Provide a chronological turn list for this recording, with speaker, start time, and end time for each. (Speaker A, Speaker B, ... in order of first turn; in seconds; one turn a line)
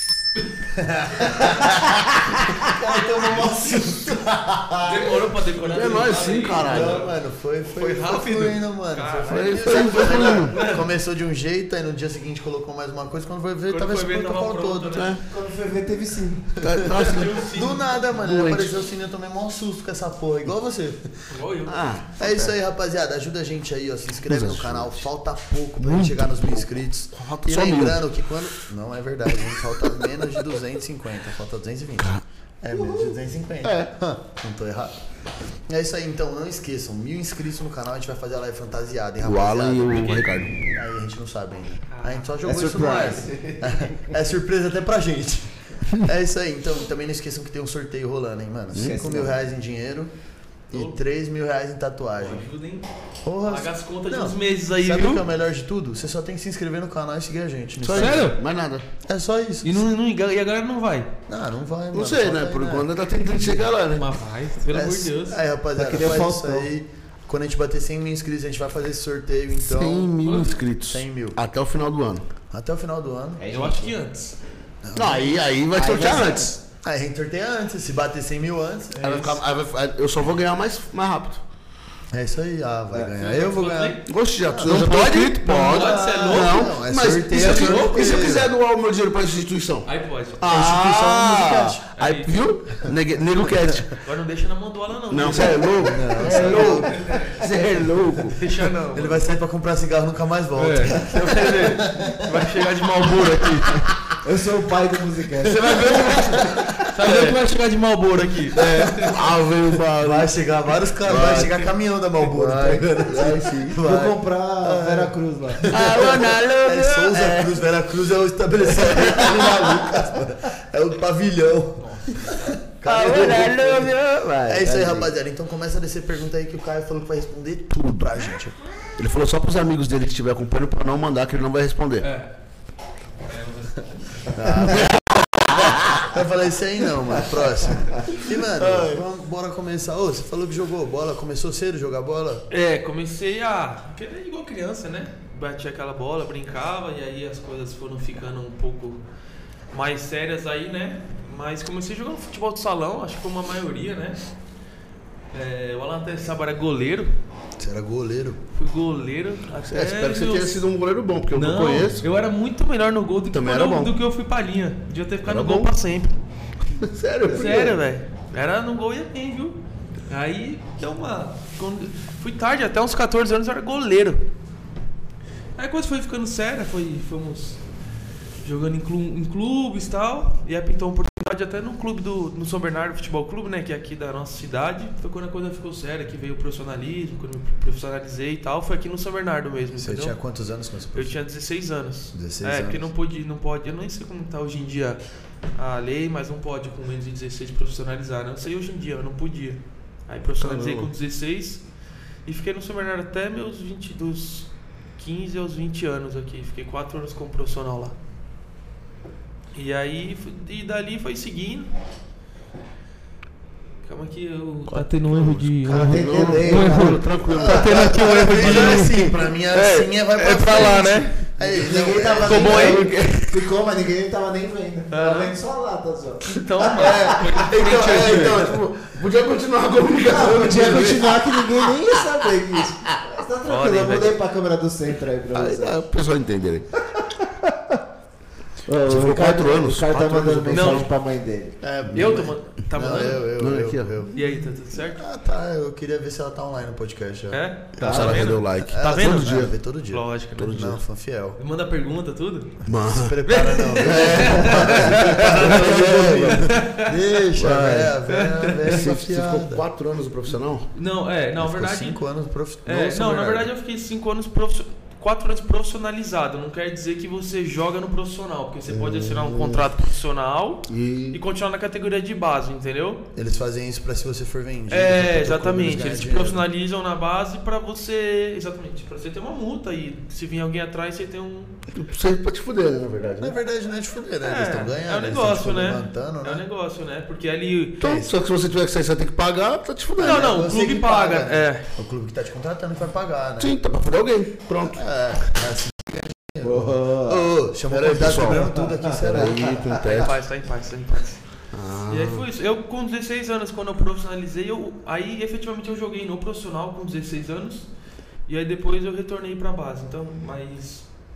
Speaker A: 0.7-5.2
Speaker B: 4.8-7.1
Speaker C: 5.6-7.1
Speaker A: 6.6-15.1
Speaker B: 7.7-10.9
Speaker C: 9.3-10.6
Speaker B: 13.7-15.2
Speaker C: 14.9-15.2
Speaker D: 15.2-16.5
Speaker C: 16.6-17.4
Speaker A: 16.6-21.1
Speaker B: 16.9-17.9
Speaker C: 18.1-18.7
Speaker B: 21.3-21.9
Speaker C: 21.7-22.6
Speaker A: 22.2-35.0
Speaker C: 24.3-25.1
Speaker C: 25.8-28.0
Speaker C: 32.0-32.2
Speaker D: 32.7-33.2
Speaker C: 33.6-33.9
Speaker A: 35.7-50.1
Speaker C: 39.2-40.6
Speaker B: 39.9-40.3
Speaker B: 41.9-42.3
Speaker D: 42.4-43.9
Speaker D: 48.8-49.3
Speaker A: 50.7-52.5
Speaker B: 50.7-51.0
Speaker B: 52.2-52.9
Speaker A: 53.2-58.3
Speaker B: 53.4-55.2
Speaker C: 57.8-58.9
Speaker B: 57.9-58.4
Speaker A: 59.0-59.8
Speaker B: 59.6-61.1
Speaker A: 61.3-63.6
Speaker C: 61.9-64.1
Speaker B: 63.9-65.4
Speaker A: 64.7-70.1
Speaker D: 65.8-66.7
Speaker C: 69.5-72.3
Speaker B: 70.2-70.6
Speaker A: 70.9-71.4
Speaker A: 72.5-73.4
Speaker D: 73.4-74.0
Speaker B: 73.5-74.4
Speaker A: 74.8-75.4
Speaker C: 75.0-76.6
Speaker D: 75.7-76.5
Speaker A: 76.8-79.3
Speaker B: 79.0-79.4
Speaker C: 79.0-81.4
Speaker A: 82.1-88.5
Speaker B: 83.2-84.0
Speaker C: 84.1-94.0
Speaker B: 84.6-88.3
Speaker B: 89.9-90.5
Speaker A: 90.5-91.8
Speaker B: 92.0-92.4
Speaker B: 94.0-95.7
Speaker C: 95.1-98.4
Speaker A: 95.7-97.0
Speaker D: 96.2-98.2
Speaker B: 96.3-97.4
Speaker B: 98.3-99.3
Speaker A: 98.9-103.6
Speaker B: 100.5-103.9
Speaker D: 104.2-105.9
Speaker B: 105.4-109.2
Speaker C: 105.8-107.4
Speaker C: 108.5-110.3
Speaker A: 109.9-123.9
Speaker C: 111.0-111.7
Speaker C: 112.2-113.8
Speaker D: 113.8-115.7
Speaker C: 115.7-117.6
Speaker C: 118.6-119.7
Speaker D: 119.4-120.0
Speaker B: 121.9-122.6
Speaker C: 122.8-124.4
Speaker D: 123.0-125.1
Speaker A: 124.5-128.6
Speaker C: 127.7-128.1
Speaker C: 129.0-132.1
Speaker B: 132.0-132.3
Speaker B: 133.3-133.9
Speaker C: 134.4-136.1
Speaker A: 134.4-134.9
Speaker A: 135.5-142.4
Speaker C: 138.3-139.1
Speaker B: 142.5-149.0
Speaker B: 149.7-154.2
Speaker B: 155.3-157.1
Speaker A: 157.6-158.4
Speaker B: 158.5-160.6
Speaker C: 159.7-162.1
Speaker B: 161.3-166.2
Speaker C: 163.3-164.0
Speaker C: 165.2-165.7
Speaker C: 166.7-167.8
Speaker B: 167.2-169.6
Speaker B: 170.1-174.2
Speaker B: 175.6-177.6
Speaker B: 178.4-190.2
Speaker A: 189.8-191.2
Speaker B: 190.9-195.0
Speaker A: 192.1-192.9
Speaker B: 195.6-201.6
Speaker C: 200.4-200.9
Speaker B: 202.3-208.0
Speaker B: 209.5-211.7
Speaker B: 213.9-219.1
Speaker C: 214.7-223.5
Speaker D: 215.7-217.1
Speaker A: 217.3-222.8
Speaker B: 220.2-221.2
Speaker D: 221.5-222.5
Speaker B: 222.2-222.8
Speaker D: 223.2-227.4
Speaker B: 224.9-225.3
Speaker B: 226.3-228.5
Speaker C: 226.8-231.9
Speaker D: 227.9-228.3
Speaker D: 230.0-235.8
Speaker B: 233.5-234.1
Speaker C: 235.3-236.7
Speaker D: 236.9-237.8
Speaker D: 238.7-241.6
Speaker C: 238.7-240.8
Speaker B: 240.5-240.9
Speaker A: 241.6-244.2
Speaker C: 241.9-242.3
Speaker B: 241.9-243.3
Speaker C: 243.4-244.2
Speaker B: 244.1-245.1
Speaker A: 244.9-247.4
Speaker B: 247.3-250.8
Speaker C: 247.8-249.5
Speaker D: 247.8-248.3
Speaker A: 248.7-251.4
Speaker C: 250.4-250.8
Speaker B: 251.4-252.6
Speaker C: 252.7-253.2
Speaker A: 252.7-259.6
Speaker B: 253.3-256.9
Speaker C: 253.8-256.5
Speaker C: 257.4-257.9
Speaker B: 258.1-258.8
Speaker C: 258.7-260.7
Speaker B: 260.7-262.0
Speaker A: 261.4-263.5
Speaker B: 262.6-273.0
Speaker C: 268.7-269.7
Speaker C: 270.7-271.2
Speaker A: 273.1-276.4
Speaker B: 274.7-281.6
Speaker C: 281.7-283.4
Speaker A: 283.2-286.4
Speaker B: 284.2-287.8
Speaker C: 287.8-290.4
Speaker A: 287.8-288.1
Speaker A: 290.0-293.6
Speaker B: 290.0-291.6
Speaker C: 293.4-294.8
Speaker A: 294.6-299.5
Speaker D: 296.4-297.3
Speaker C: 297.7-300.1
Speaker D: 298.0-299.8
Speaker B: 299.9-301.2
Speaker C: 301.5-302.3
Speaker B: 301.9-307.7
Speaker B: 308.3-310.9